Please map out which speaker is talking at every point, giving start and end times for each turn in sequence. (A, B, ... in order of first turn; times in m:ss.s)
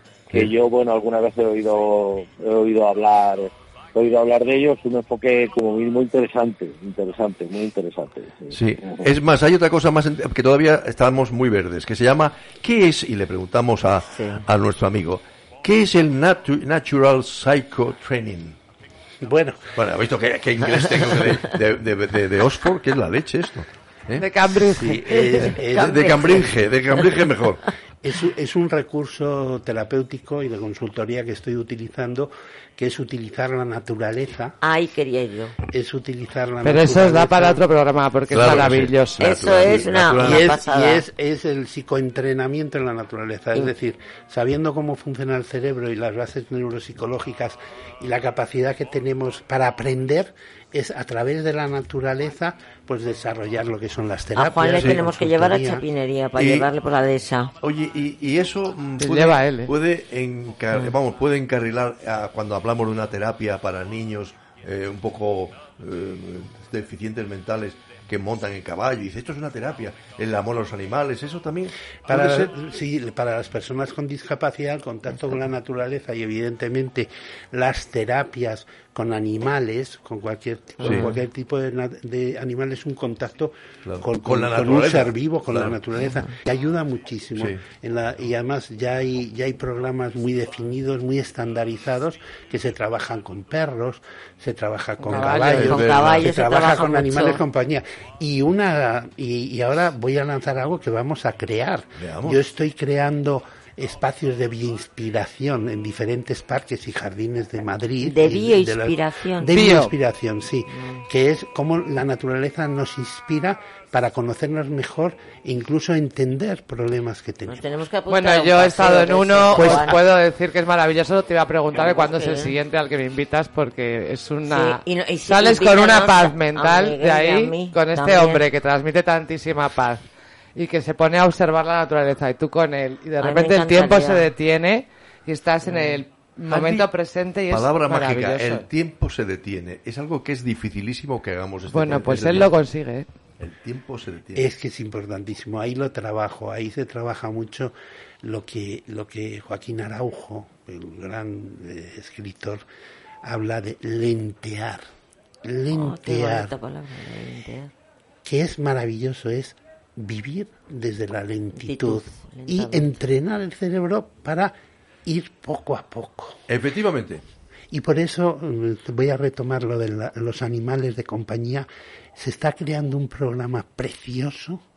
0:00.3-0:09.0 A
0:08.5-0:18.6 B
0:14.1-0:14.4 C
0:19.2-0:19.7 D
0:19.8-0:27.6 B
0:24.2-0:25.0 E
0:24.8-0:26.4 D
0:24.9-0:26.4 C
0:28.0-0:34.6 D
0:34.6-0:35.6 C
0:35.7-0:37.6 D
0:36.6-0:39.2 E
0:38.3-0:40.5 B
0:39.2-0:41.0 C
0:40.1-0:55.8 D
0:54.3-0:57.5 C
0:54.8-0:55.1 B
0:56.4-0:56.7 B
0:57.6-1:12.5 B
0:59.0-0:59.7 E
1:12.1-1:57.6 D
1:20.8-1:21.1 B
1:23.8-1:25.8 B
1:35.0-1:35.8 E
1:35.2-1:37.4 C
1:35.4-1:36.2 B
1:42.0-1:42.4 B
1:48.0-1:49.5 C
1:49.5-1:49.9 E
1:50.7-1:51.0 C
1:57.5-2:00.0 C
1:58.1-2:10.0 E
2:01.7-2:02.5 C
2:04.5-2:08.4 C
2:10.6-2:18.6 E
2:13.2-2:14.3 C
2:15.7-2:16.0 C
2:16.5-2:16.9 B
2:17.5-2:22.5 B
2:21.7-2:23.1 E
2:23.4-2:24.5 B
2:24.3-2:32.6 D
2:33.2-2:34.8 D
2:35.4-2:36.5 D
2:35.7-2:37.7 C
2:38.2-2:44.5 D
2:41.6-2:42.9 C
2:45.0-2:46.4 D
2:46.5-2:47.2 B
2:47.7-2:54.6 D